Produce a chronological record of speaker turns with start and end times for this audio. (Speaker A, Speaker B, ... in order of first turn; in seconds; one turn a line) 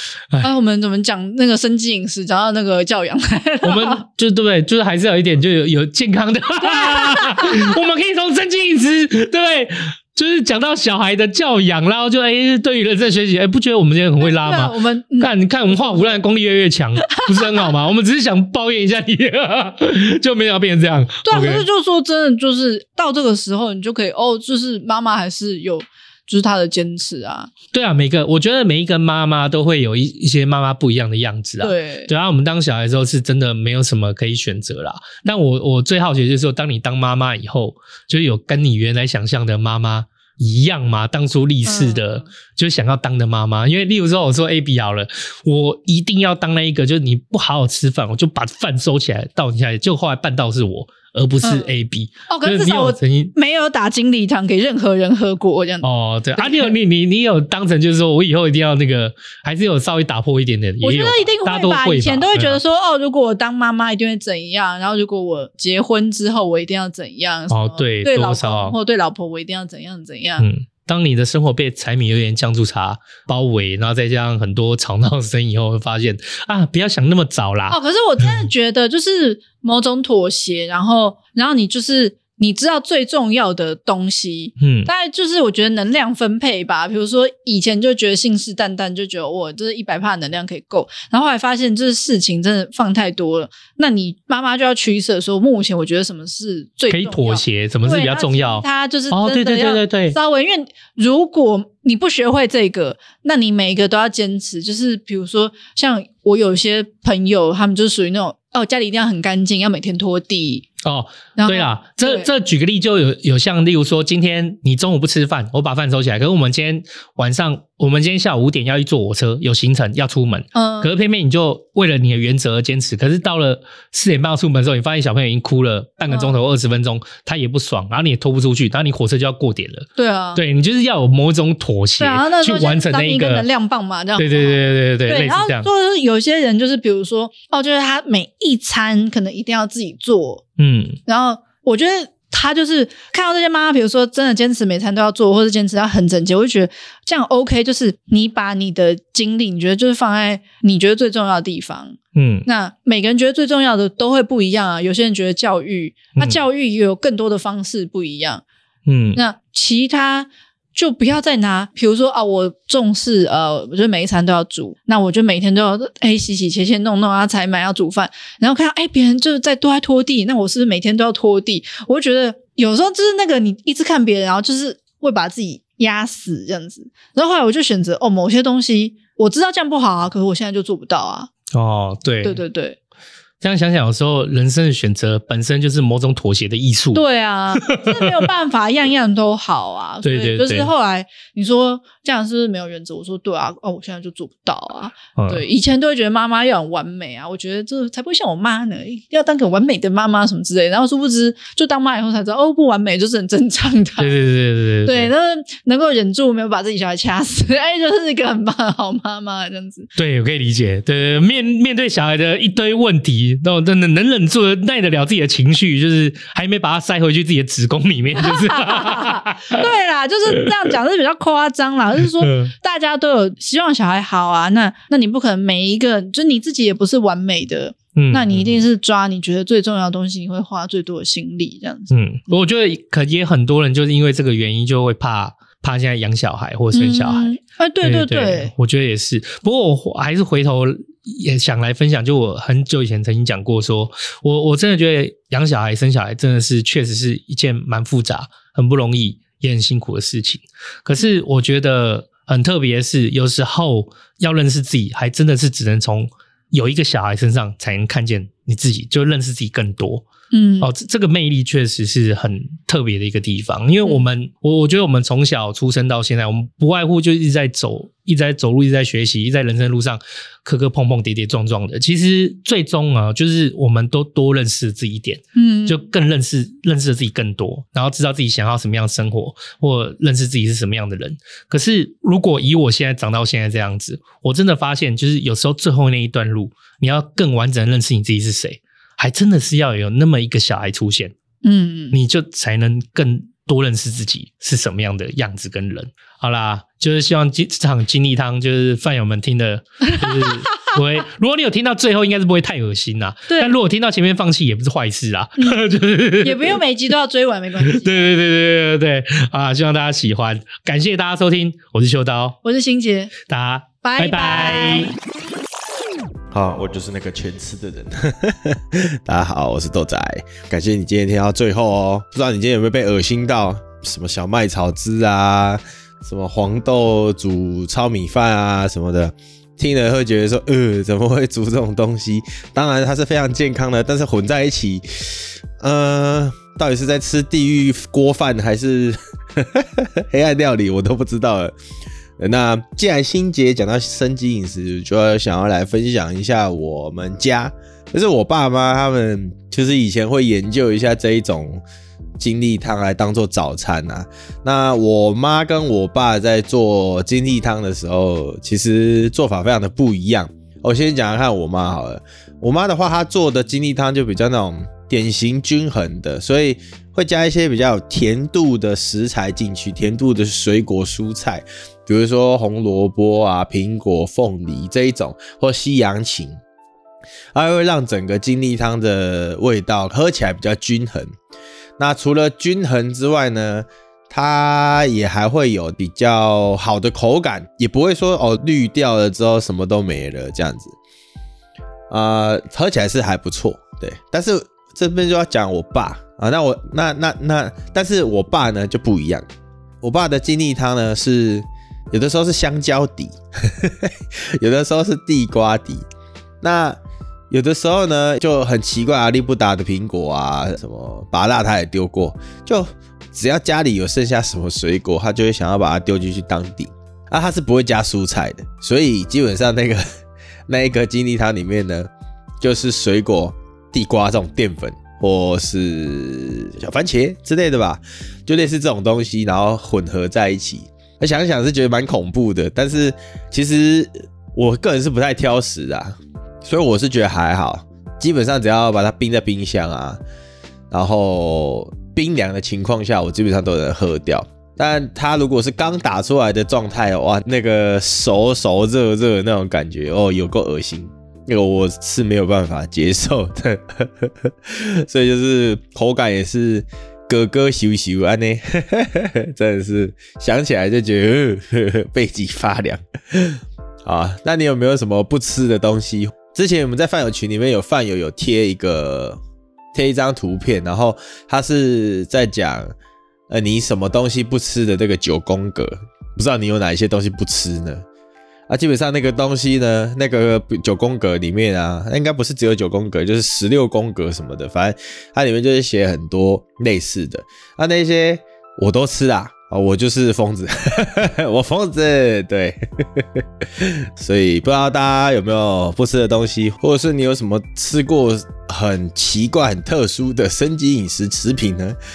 Speaker A: 0.4-4.0
Speaker B: 3.6-21.7
Speaker A: 6.6-7.7
Speaker A: 14.2-16.0
Speaker A: 17.2-17.6
Speaker A: 21.2-27.5
Speaker B: 27.7-53.3
Speaker A: 31.6-32.1
Speaker A: 41.7-42.3
Speaker A: 51.4-51.7
Speaker A: 52.3-56.7
Speaker B: 55.8-62.6
Speaker A: 60.8-70.5
Speaker B: 67.5-68.8
Speaker B: 70.4-78.4
Speaker A: 77.7-110.7
Speaker B: 84.6-84.9
Speaker B: 96.9-100.2
Speaker B: 110.8-133.5
Speaker A: 111.4-112.3
Speaker A: 120.5-120.9
Speaker A: 126.1-126.4
Speaker A: 130.0-130.4
Speaker A: 132.0-140.4
Speaker B: 134.2-135.7
Speaker B: 140.6-141.0
Speaker A: 141.1-158.4
Speaker B: 152.2-152.5
Speaker B: 158.9-159.2
Speaker A: 159.2-181.3
Speaker B: 181.5-182.4
Speaker A: 182.2-182.8
Speaker B: 183.4-187.0
Speaker A: 186.9-204.2
Speaker B: 187.6-188.3
Speaker B: 190.0-190.7
Speaker B: 195.2-195.4
Speaker B: 204.0-205.1
Speaker A: 204.8-209.9
Speaker B: 210.0-219.6
Speaker A: 218.2-231.9
Speaker B: 222.2-222.5
Speaker B: 228.0-228.6
Speaker B: 231.9-260.1
Speaker A: 236.7-238.5
Speaker A: 260.3-260.7
Speaker B: 260.6-291.1
Speaker A: 275.4-275.9
Speaker A: 291.4-292.0
Speaker B: 291.9-306.6
Speaker A: 303.3-303.5
Speaker A: 306.2-308.1
Speaker B: 307.6-312.4
Speaker A: 312.4-313.1
Speaker B: 313.3-315.0
Speaker A: 313.8-314.9
Speaker C: 316.3-341.5
Speaker C: 342.2-351.6
Speaker C: 352.2-376.4
Speaker C: 377.3-381.1
Speaker C: 381.8-390.8
Speaker C: 391.9-399.2
Speaker C: 399.8-405.9
Speaker C: 406.4-406.8
Speaker C: 407.3-419.9
Speaker C: 420.5-421.9
Speaker C: 422.4-440.0
Speaker C: 440.7-469.2
Speaker C: 469.7-472.7
Speaker C: 473.3-477.8
Speaker C: 478.5-501.8